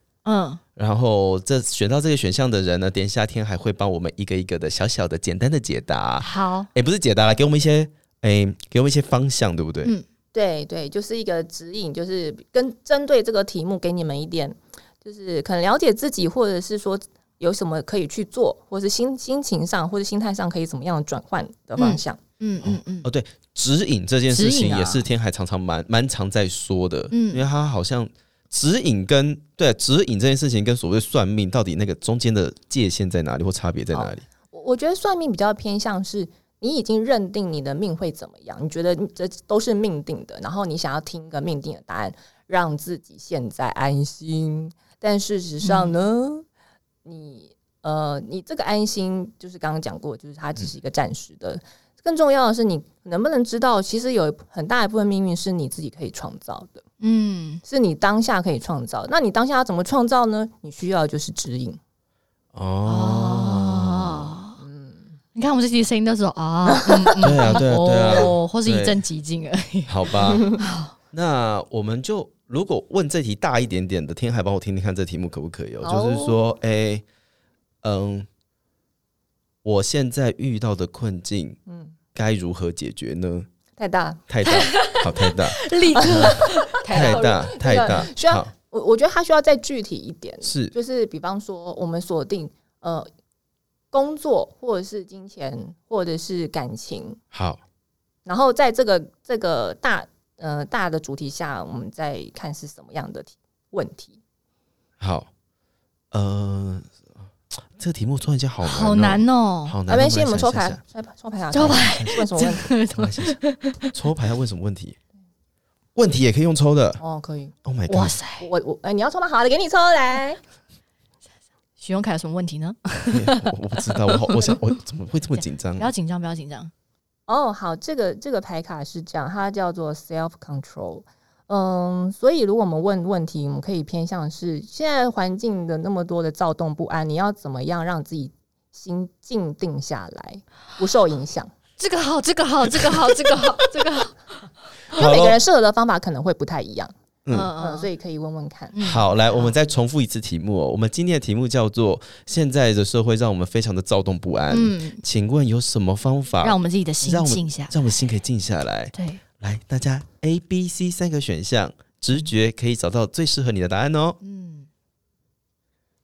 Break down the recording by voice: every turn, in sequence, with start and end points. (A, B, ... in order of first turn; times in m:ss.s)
0:00.2-0:00.6 A
0:00.8-0:09.9 B
0:06.2-0:06.7 A
0:10.3-0:22.2 C
0:21.8-0:23.1 A
0:22.6-0:34.2 B
0:24.3-0:25.0 A
0:27.1-0:27.4 A
0:33.9-0:46.4 C
0:45.6-0:46.0 A
0:47.0-0:56.8 C
0:57.0-0:57.6 A
0:57.6-1:01.8 C
1:02.5-1:04.3 B
1:02.8-1:04.6 A
1:04.6-1:05.0 C
1:05.3-1:10.9 A
1:07.2-1:09.0 B
1:09.9-1:10.5 B
1:11.1-1:17.0 B
1:15.8-1:16.4 C
1:17.8-1:18.3 B
1:19.6-1:21.6 B
1:21.7-1:22.0 C
1:22.1-1:23.5 B
1:23.8-1:24.2 C
1:24.3-1:28.5 B
1:24.4-1:28.0 A
1:25.9-1:33.1 C
1:30.4-1:30.7 B
1:33.9-1:37.2 C
1:37.3-1:37.6 B
1:38.2-1:44.2 C
1:45.0-1:45.3 B
1:46.1-1:50.8 B
1:48.6-1:49.8 A
1:49.9-1:52.7 C
1:51.5-1:53.9 A
1:51.6-1:52.1 B
1:52.9-1:55.0 B
1:56.0-1:57.0 B
1:57.0-1:57.6 C
1:57.6-1:58.1 B
1:57.9-1:58.5 A
1:58.4-2:00.4 C
2:01.8-2:04.5 A
2:03.1-2:05.9 B
2:05.8-2:06.7 A
2:07.3-2:21.5 C
2:21.8-2:24.3 A
2:24.9-2:25.4 B
2:24.9-2:26.9 C
2:27.2-2:27.5 B
2:27.3-2:27.9 A
2:27.6-2:28.7 C
2:28.7-2:29.5 A
2:28.8-2:44.2 B
2:34.5-2:35.0 A
2:36.4-2:37.8 A
2:38.9-2:39.2 A
2:44.2-2:44.7 A